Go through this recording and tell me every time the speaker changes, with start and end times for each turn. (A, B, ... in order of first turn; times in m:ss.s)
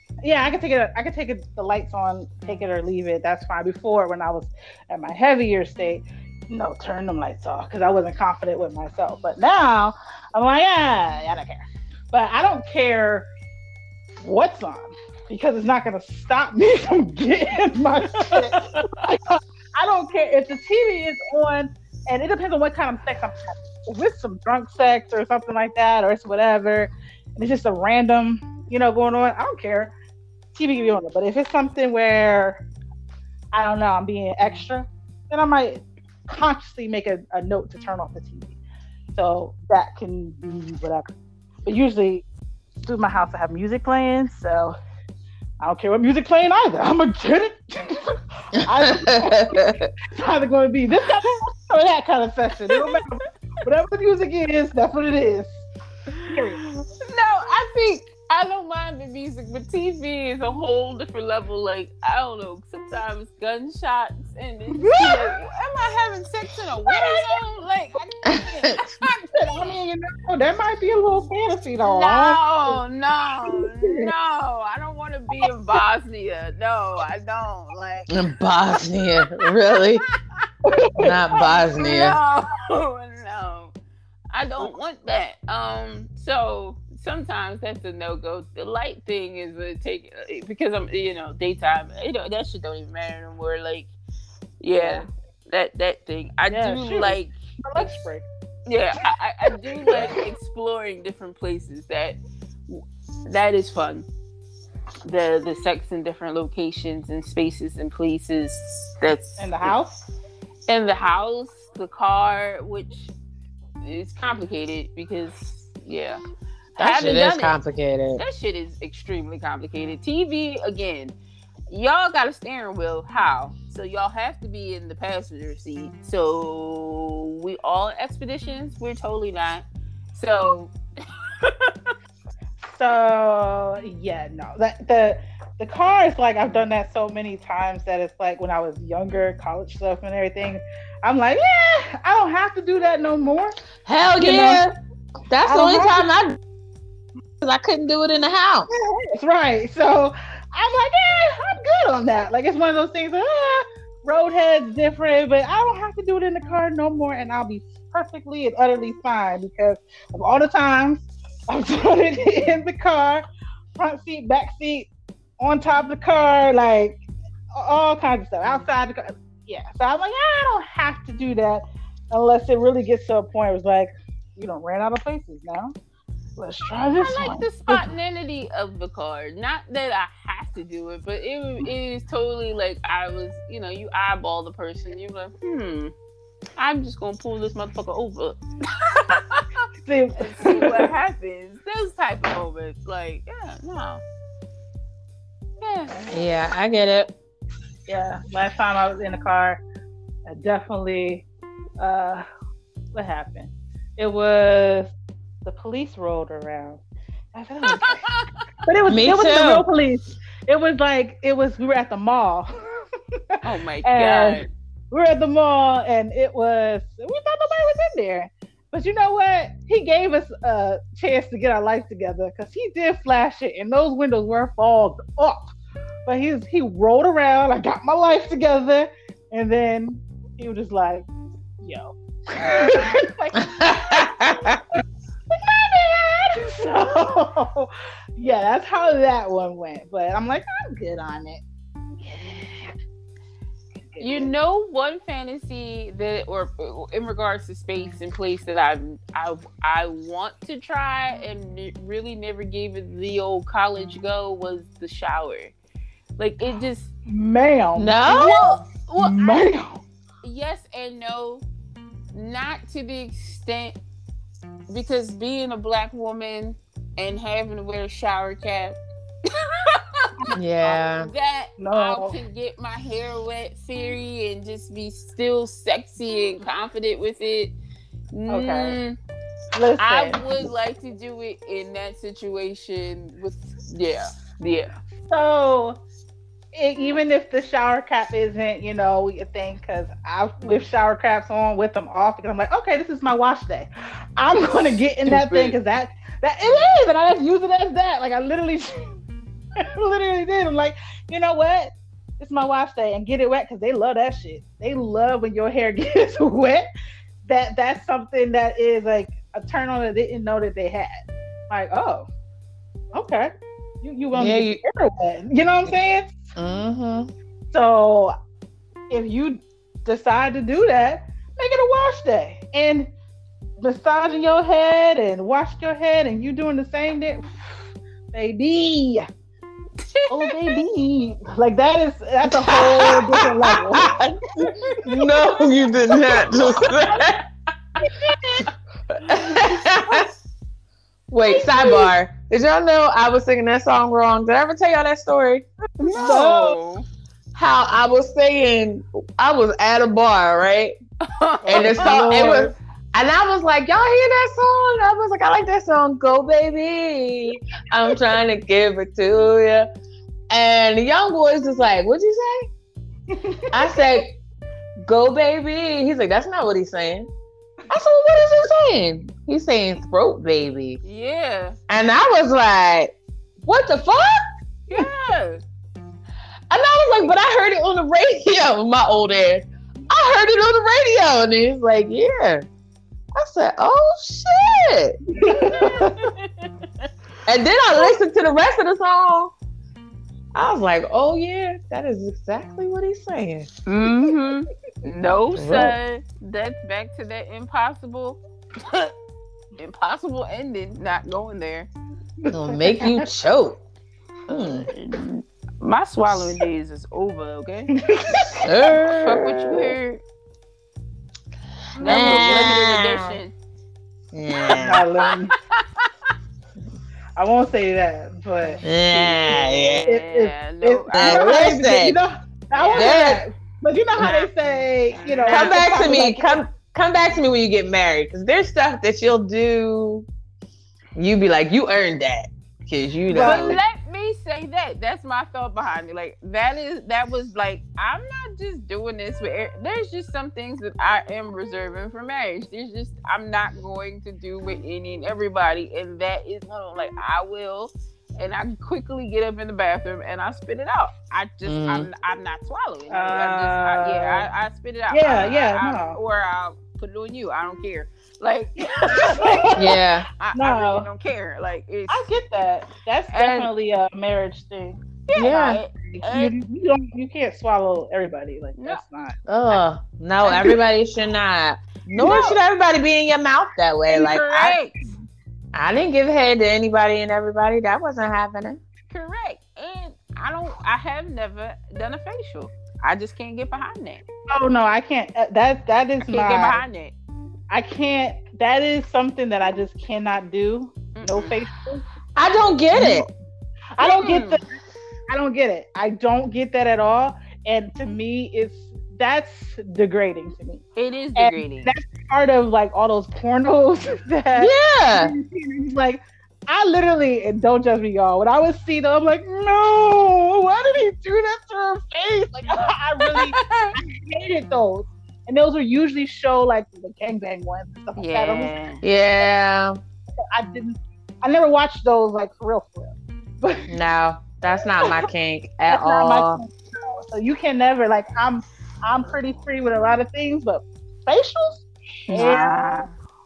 0:00.2-0:13.3 A
0:14.2-0:29.9 A
0:18.6-0:19.0 B
0:30.5-0:32.6 A
0:33.5-0:38.6 A
0:39.1-0:41.1 A
0:41.6-0:42.2 A
0:42.8-0:44.7 A
0:45.6-0:55.6 A
0:48.7-0:49.9 C
0:52.7-0:53.0 B
0:56.1-1:09.7 B
0:56.2-0:56.6 A
1:04.8-1:05.3 A
1:06.9-1:07.4 A
1:08.2-1:08.8 C
1:09.3-1:12.8 A
1:11.8-1:18.1 B
1:13.4-1:14.1 A
1:18.1-1:20.0 C
1:20.6-1:21.4 A
1:21.0-1:22.2 C
1:21.4-1:23.7 B
1:24.3-1:33.9 B
1:34.6-1:38.0 B
1:34.8-1:35.0 A
1:36.5-1:38.2 A
1:38.6-1:42.2 B
1:39.6-1:40.2 A
1:42.7-1:44.1 B
1:45.0-1:49.7 B
1:49.4-1:50.0 A
1:50.7-1:53.1 B
1:53.8-1:56.2 B
1:56.8-1:57.6 B
1:56.8-1:58.2 C
1:58.2-2:01.1 B
2:01.7-2:10.7 B
2:11.4-2:11.9 B
2:12.6-2:23.5 A
2:23.8-2:24.7 C
2:24.2-2:24.6 A
2:25.3-2:26.4 C
2:25.4-2:26.1 A
2:27.4-2:28.7 C
2:29.1-2:43.2 A
2:43.8-2:44.9 A
2:45.4-2:55.7 A
2:56.4-2:57.9 A
2:57.0-3:05.9 B
3:06.6-3:09.6 B
3:09.8-3:10.9 A
3:10.2-3:14.0 B
3:15.6-3:16.0 B
3:16.1-3:17.1 C
3:17.9-3:19.6 A
3:20.2-3:21.2 A
3:21.8-3:22.2 A
3:22.9-3:24.9 A
3:25.4-3:26.8 A
3:27.3-3:28.0 A
3:27.6-3:28.4 B
3:28.6-3:45.5 A
3:28.9-3:29.6 C
3:33.4-3:34.5 B
3:46.0-3:51.1 A
3:51.6-3:54.3 A
3:53.6-3:54.6 C
3:55.3-4:01.4 A
4:02.0-4:02.7 A
4:03.9-4:04.3 A
4:04.0-4:15.5 B
4:16.2-4:16.9 B
4:17.1-4:18.0 A
4:17.8-4:18.6 C
4:18.0-4:19.5 B
4:19.0-4:19.8 A
4:20.2-4:21.4 B
4:22.1-4:23.7 B
4:24.7-4:28.8 B
4:29.3-4:30.3 B
4:30.4-4:31.1 C
4:31.0-4:37.5 B
4:31.6-4:32.2 A
4:38.1-4:39.0 B
4:38.3-4:38.8 A
4:39.5-4:40.5 A
4:39.8-4:44.7 B
4:45.0-4:45.8 A
4:46.5-4:59.0 A
4:55.0-4:55.6 B
4:59.6-5:06.7 A
5:07.2-5:12.1 A
5:12.9-5:16.3 A
5:14.1-5:14.6 C
5:16.4-5:17.1 C
5:17.5-5:18.1 A
5:18.9-5:22.9 A
5:23.6-5:27.4 A
5:28.1-5:29.1 A
5:29.8-5:30.6 B
5:30.1-5:33.9 A
5:32.3-5:34.2 C
5:34.4-5:34.8 B
5:34.8-5:36.3 A
5:34.8-5:37.2 C
5:37.8-5:38.5 A
5:39.1-5:40.1 C
5:41.1-5:45.4 C
5:41.2-5:41.9 A
5:45.8-5:46.8 B
5:45.9-5:46.6 A
5:47.3-5:50.7 C
5:51.0-5:52.3 B
5:51.5-5:52.5 A
5:51.5-5:59.7 C
6:00.3-6:02.5 C
6:03.1-6:03.8 A
6:03.5-6:04.2 C
6:04.8-6:07.1 C
6:07.7-6:10.8 C
6:10.8-6:11.6 B
6:11.7-6:12.9 C
6:13.4-6:14.2 C
6:14.7-6:15.4 B
6:16.5-6:22.5 C
6:23.1-6:25.0 C
6:25.2-6:26.1 A
6:25.6-6:26.5 B
6:27.2-6:29.3 C
6:30.3-6:33.5 C
6:33.6-6:38.9 B
6:35.3-6:35.8 C
6:39.6-6:41.7 B
6:42.3-6:43.0 A
6:42.3-6:43.6 C
6:44.3-6:47.7 B
6:44.3-6:44.6 C
6:47.8-6:48.4 A
6:48.4-6:49.7 C
6:48.9-6:50.0 B
6:51.8-6:52.6 A
6:51.8-6:53.3 B
6:51.8-6:53.2 C
6:54.1-6:54.8 C
6:54.5-6:55.4 A
6:55.1-6:55.9 B
6:57.2-6:58.6 A
6:58.4-7:01.5 B
6:58.6-6:59.9 C
6:59.9-7:06.4 A
7:00.9-7:02.0 C
7:02.5-7:03.0 B
7:02.7-7:03.2 C
7:04.0-7:04.3 B
7:04.9-7:05.8 B
7:05.3-7:10.1 C
7:11.0-7:13.6 C
7:13.1-7:13.6 A
7:13.2-7:42.1 B
7:31.4-7:31.9 C
7:32.9-7:34.3 A
7:34.9-7:36.0 A
7:38.6-7:39.8 A
7:39.6-7:40.1 C
7:40.3-7:40.9 A
7:41.9-7:49.2 A
7:43.1-7:43.5 B
7:45.1-7:46.3 B
7:48.6-7:48.8 B
7:49.3-7:54.6 C
7:50.2-7:50.6 A
7:52.0-7:52.4 A
7:53.9-7:54.7 B
7:55.5-7:58.6 C
7:58.9-8:04.0 B
8:04.3-8:06.6 A
8:06.0-8:06.9 B
8:07.5-8:11.8 A
8:11.0-8:11.4 B
8:12.1-8:13.1 C
8:12.7-8:13.0 A
8:13.8-8:14.4 A
8:13.8-8:14.4 B
8:15.1-8:20.6 A
8:20.8-8:21.7 B
8:21.2-8:38.5 A
8:24.3-8:25.1 C
8:33.0-8:33.7 B
8:38.0-8:38.8 B
8:38.8-8:39.8 C
8:40.3-8:43.7 A
8:43.7-8:46.4 C
8:44.8-8:45.1 A
8:45.7-8:52.9 A
8:52.1-8:52.9 B